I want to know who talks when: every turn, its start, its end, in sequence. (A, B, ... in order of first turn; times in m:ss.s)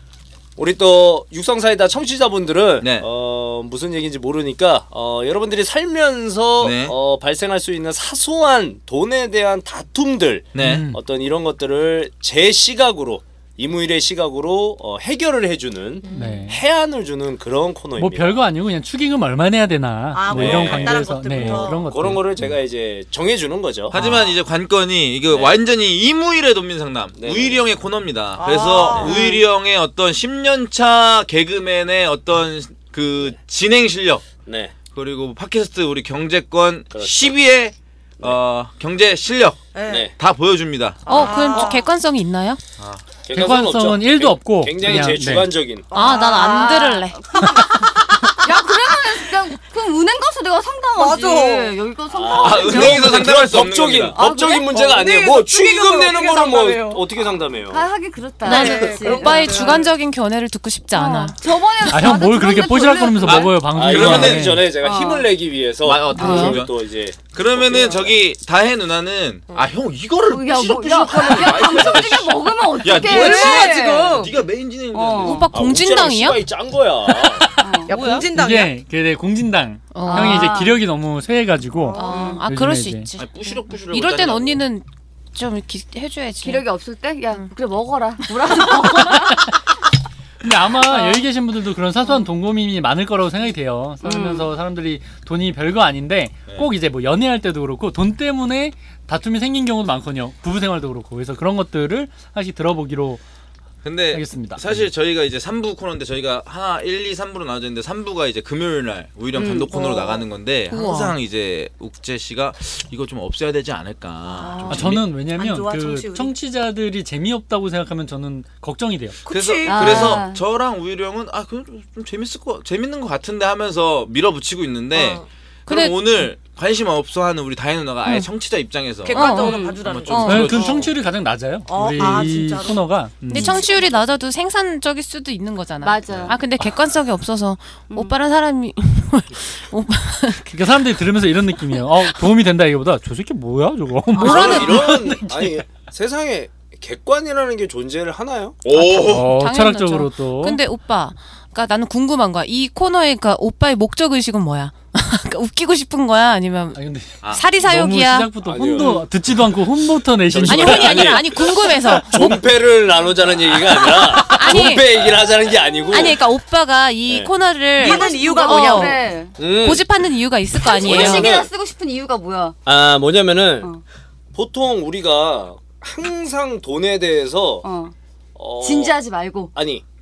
0:00.6-0:18.4 A
0:02.8-0:03.1 B
0:06.6-0:06.9 B
0:10.5-0:10.8 B
0:10.6-0:11.0 C
0:16.0-0:16.5 D
0:16.1-0:16.6 C
0:18.0-0:22.5 C
0:20.1-0:21.9 D
0:20.3-0:24.2 A
0:20.3-0:20.9 B
0:23.9-0:34.2 B
0:23.9-0:24.2 C
0:25.3-0:25.6 A
0:27.2-0:27.6 A
0:28.4-0:29.4 D
0:28.9-0:29.2 A
0:34.4-0:34.7 A
0:34.9-0:39.6 B
0:36.9-0:37.4 A
0:39.7-0:40.1 D
0:39.9-0:40.1 A
0:40.2-0:41.3 B
0:41.0-0:41.9 D
0:41.0-0:42.6 E
0:43.2-0:45.9 A
0:43.3-0:45.5 C
0:45.9-0:48.6 D
0:45.9-0:47.6 E
0:45.9-0:47.8 F
0:48.4-0:53.3 F
0:50.9-0:51.8 D
0:52.1-0:57.8 A
0:52.4-0:54.2 B
0:54.1-0:54.7 F
0:54.7-0:57.1 D
0:57.7-0:59.8 F
0:58.4-0:59.9 D
0:58.4-1:01.4 E
1:00.9-1:03.6 F
1:01.8-1:04.7 C
1:03.2-1:04.6 B
1:03.7-1:08.2 A
1:04.8-1:05.3 F
1:05.8-1:15.5 B
1:06.1-1:06.6 F
1:06.2-1:06.6 E
1:10.2-1:14.4 F
1:11.4-1:11.8 A
1:13.0-1:14.3 D
1:14.9-1:15.5 F
1:15.2-1:16.4 E
1:15.5-1:17.5 A
1:17.6-1:18.1 F
1:17.8-1:18.8 D
1:17.9-1:18.2 E
1:18.3-1:23.1 C
1:19.9-1:20.6 E
1:20.0-1:20.8 F
1:21.8-1:22.4 D
1:21.9-1:26.6 E
1:21.9-1:22.4 F
1:23.2-1:24.6 B
1:26.4-1:29.5 F
1:29.0-1:29.3 C
1:30.4-1:43.2 C
1:34.0-1:34.5 F
1:43.8-1:55.0 B
1:44.1-1:44.8 C
1:49.4-1:49.7 F
1:49.7-1:50.2 D
1:50.7-1:51.1 E
1:54.3-1:56.4 D
1:54.7-1:59.2 C
1:59.2-2:00.2 D
1:59.2-2:10.9 B
1:59.6-2:00.4 F
2:05.0-2:05.2 D
2:05.7-2:06.3 E
2:08.0-2:08.3 E
2:09.0-2:10.9 D
2:09.1-2:10.6 E
2:09.4-2:09.8 F
2:10.2-2:13.6 C
2:11.7-2:14.2 D
2:13.3-2:21.0 E
2:15.8-2:16.4 F
2:16.1-2:16.7 B
2:20.5-2:25.6 C
2:21.6-2:21.8 E
2:24.1-2:24.8 D
2:24.2-2:28.6 A
2:24.2-2:24.7 E
2:28.6-2:29.3 B
2:28.7-2:38.9 E
2:29.0-2:30.6 C
2:36.7-2:42.4 C
2:37.2-2:37.5 B
2:38.4-2:39.1 A
2:40.3-2:41.4 A
2:40.4-2:42.1 E
2:42.1-2:46.2 A
2:43.8-2:44.2 C
2:44.2-2:44.9 E
2:45.9-2:51.3 E
2:47.1-2:47.3 A
2:47.8-2:49.0 D
2:47.8-2:49.4 F
2:49.4-2:49.8 A
2:50.5-2:52.6 F
2:50.8-2:51.5 A
2:52.6-2:53.7 A
2:54.3-2:57.6 A
2:57.6-2:57.9 F
2:58.4-2:59.0 A
2:58.6-2:59.5 F
2:59.5-2:59.8 A